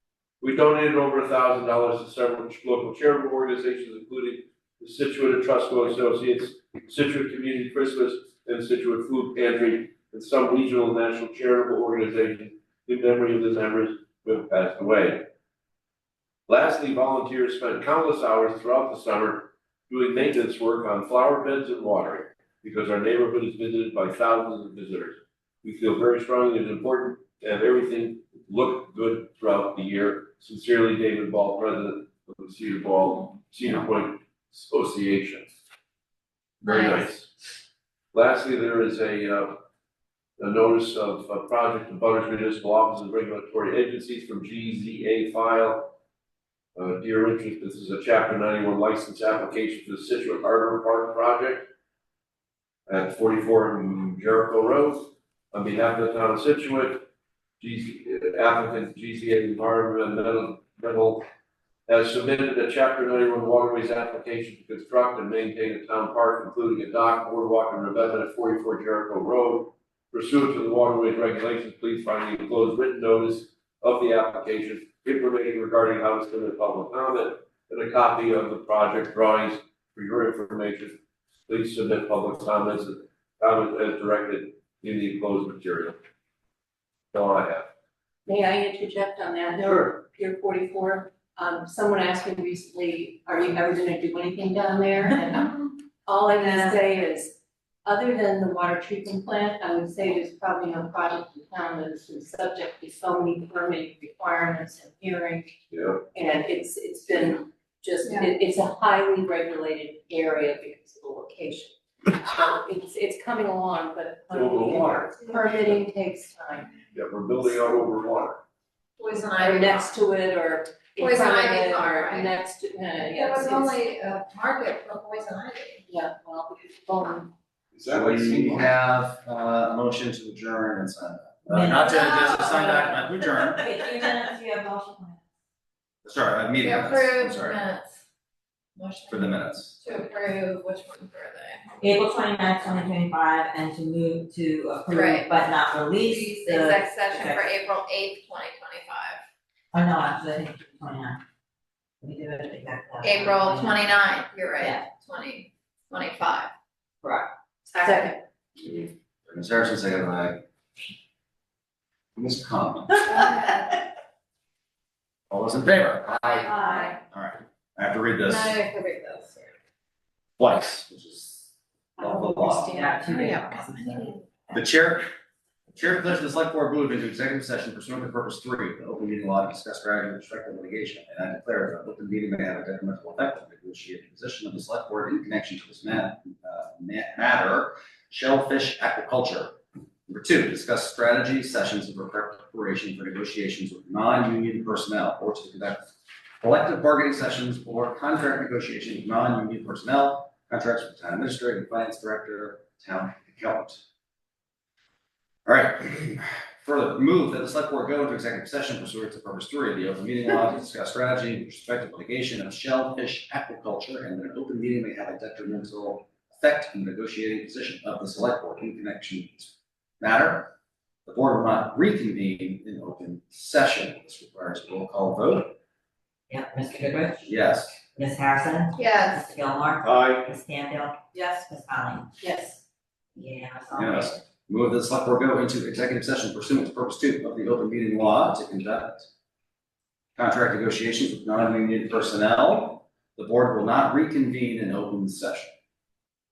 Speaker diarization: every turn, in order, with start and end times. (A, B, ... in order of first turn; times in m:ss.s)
0:00.4-0:15.3 A
0:16.5-0:35.5 A
0:36.6-0:37.3 A
0:36.6-0:37.0 B
0:38.1-0:39.6 A
0:40.4-0:45.9 A
0:46.8-0:51.7 A
0:52.9-0:57.0 A
0:57.6-1:01.2 A
1:01.9-1:26.0 A
1:27.1-1:27.7 A
1:28.2-1:45.5 C
1:29.6-1:29.9 A
1:35.3-1:35.7 B
1:36.5-1:36.7 B
1:45.7-1:46.0 A
1:46.1-1:56.8 C
1:48.0-1:48.3 B
1:54.3-1:55.1 A
1:56.9-1:58.4 A
1:59.0-1:59.9 B
1:59.4-2:03.8 C
2:01.0-2:02.3 B
2:03.1-2:05.8 B
2:05.9-2:07.3 C
2:07.7-2:08.7 A
2:07.9-2:13.6 D
2:11.5-2:15.2 E
2:11.9-2:12.5 B
2:16.0-2:17.6 D
2:16.6-2:18.0 B
2:18.8-2:21.7 B
2:19.1-2:19.7 D
2:21.8-2:27.5 E
2:24.9-2:25.3 B
2:26.0-2:29.2 B
2:29.7-2:31.2 E
2:32.0-2:33.8 E
2:33.0-2:36.5 B
2:34.6-2:34.8 E
2:37.0-2:37.3 E
2:37.7-2:38.1 B
2:37.7-2:38.2 C
2:38.6-2:40.4 D
2:42.2-2:43.3 D
2:45.3-2:46.5 D
2:46.1-2:47.0 B
2:46.5-2:47.0 C
2:47.1-2:48.6 D
2:48.2-2:49.5 B
2:50.4-2:52.8 D
2:52.0-2:54.1 E
2:52.7-2:54.2 B
2:54.5-2:55.0 D
2:55.7-3:23.8 D
3:25.4-3:40.5 D
3:41.0-3:45.6 D
3:46.3-3:47.3 E
3:47.2-3:47.8 D
3:47.9-3:52.1 E
3:48.7-3:49.2 B
3:49.8-3:50.3 A
3:51.1-3:51.5 C
3:52.2-3:52.6 C
3:53.1-3:54.2 E
3:53.7-3:59.1 D
4:00.2-4:05.5 D